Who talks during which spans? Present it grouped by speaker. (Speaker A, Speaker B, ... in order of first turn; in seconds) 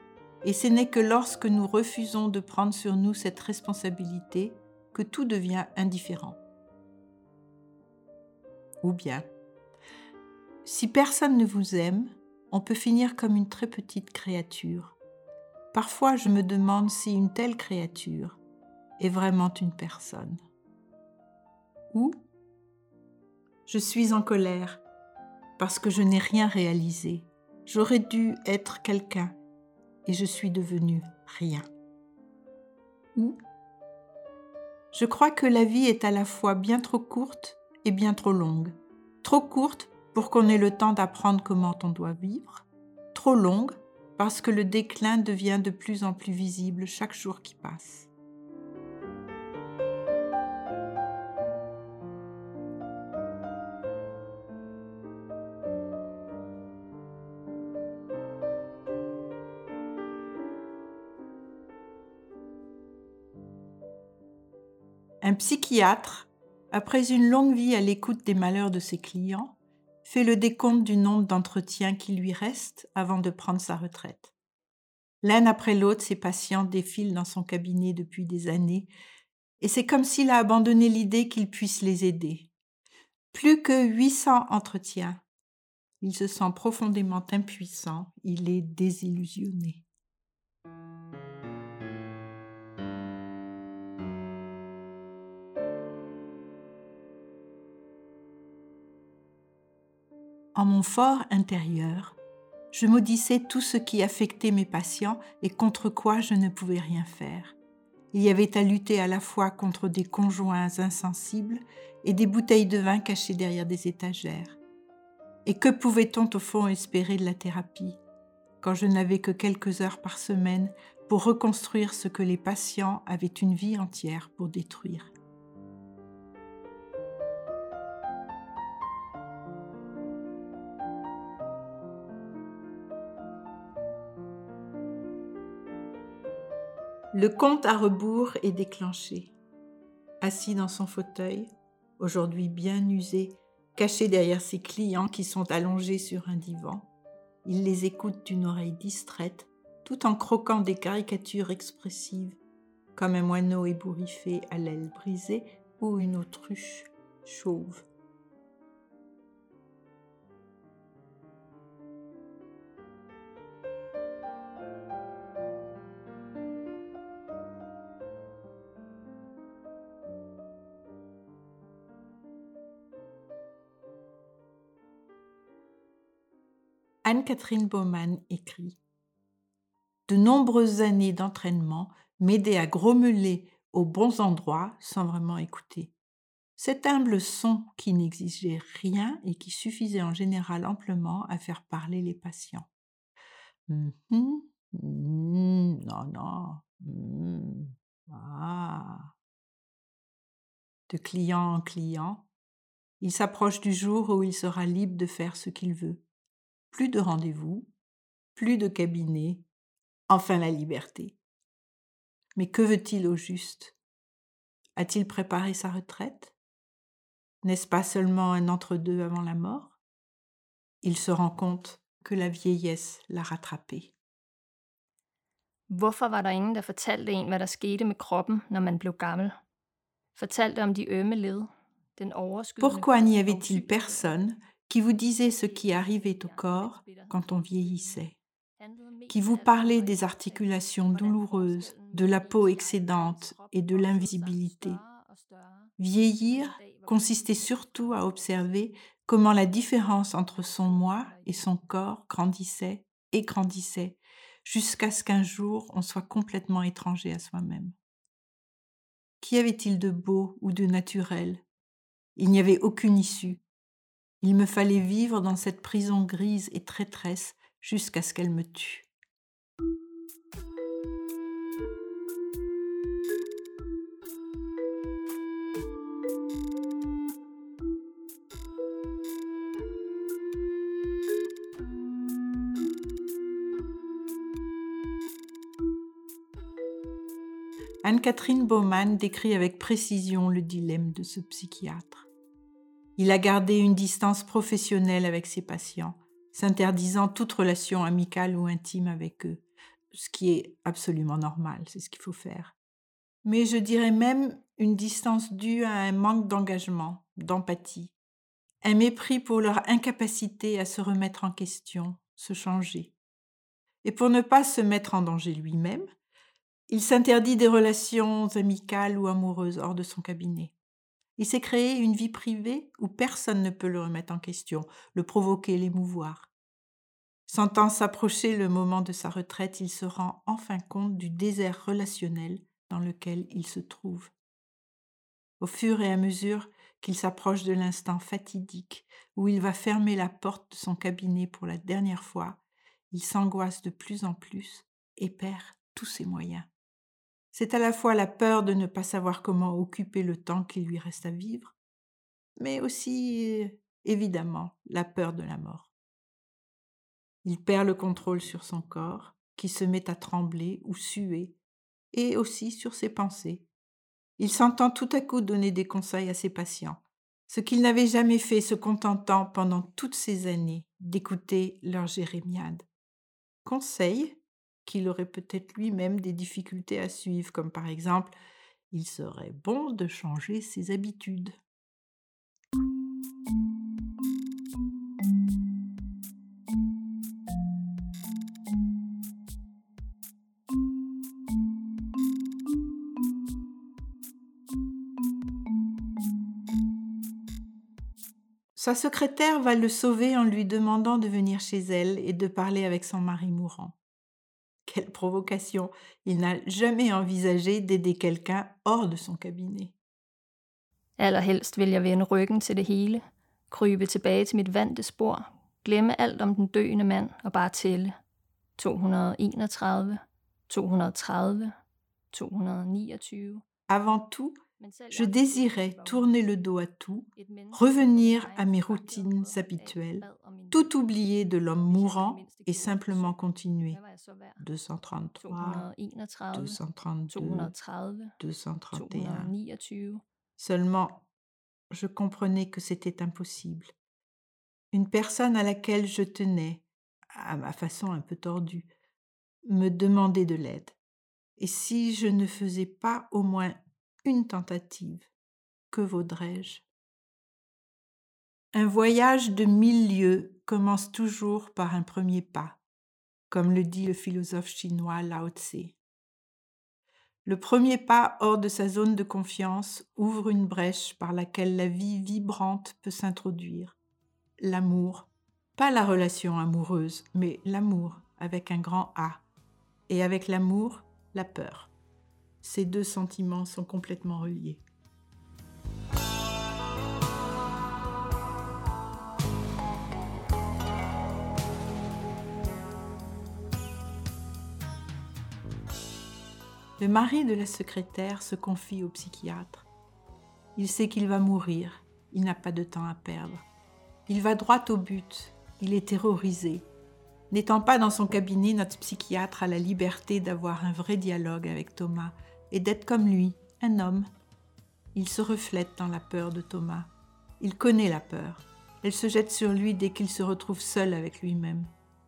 Speaker A: 0.4-6.4, 8.8-9.3, 10.6-14.9, 15.7-18.4, 19.0-20.4, 21.9-22.2, 23.6-24.8, 25.6-29.3, 30.1-31.7, 34.9-48.1, 65.2-74.3, 75.2-78.9, 79.6-82.5, 83.3-85.2, 86.0-89.8, 100.5-102.2, 102.7-107.5, 108.1-114.6, 115.5-118.0, 118.6-125.1, 137.1-139.3, 140.2-146.9, 147.4-152.4, 152.9-157.8, 177.0-178.8, 180.1-185.9, 186.6-192.7, 193.7-199.1, 200.9-202.3, 203.0-206.0, 206.7-207.7, 208.3-209.4, 210.1-211.2, 212.3-213.8, 214.8-216.3, 217.4-219.8, 220.8-223.9, 232.6-238.2, 239.1-244.8, 245.8-257.7, 259.2-261.4, 262.1-263.4, 264.2-268.9, 287.8-292.1, 293.0-302.5, 303.2-307.9, 308.6-312.9, 313.8-315.9, 316.7-320.5, 321.2-326.3, 327.3-334.1, 335.4-346.5, 347.3-351.5, 352.4-355.7, 357.2-361.4, 361.9-363.5, 364.2-372.6, 373.4-378.1, 378.7-381.4, 398.6-403.8, 404.6-409.7, 423.7-424.4, 424.9-433.8, 434.4-435.7, 436.3-437.5, 438.2-439.3, 440.4-441.1, 441.7-443.7, 444.7-448.7, 449.4-450.8, 451.4-455.1, 455.7-456.6, 458.5-462.6, 463.3-465.8, 467.2-473.8, 474.4-479.2, 479.9-481.7, 482.4-484.6, 496.8-499.7, 500.6-503.4, 504.1-506.7, 507.3-514.1, 514.9-521.7
Speaker B: 225.7-229.4, 230.1-234.1, 235.2-248.5, 250.3-251.4, 411.0-418.0, 418.6-421.5, 422.1-423.4, 424.6-426.1, 427.1-430.8, 431.7-434.4, 435.2-436.6, 437.1-438.2, 438.7-440.0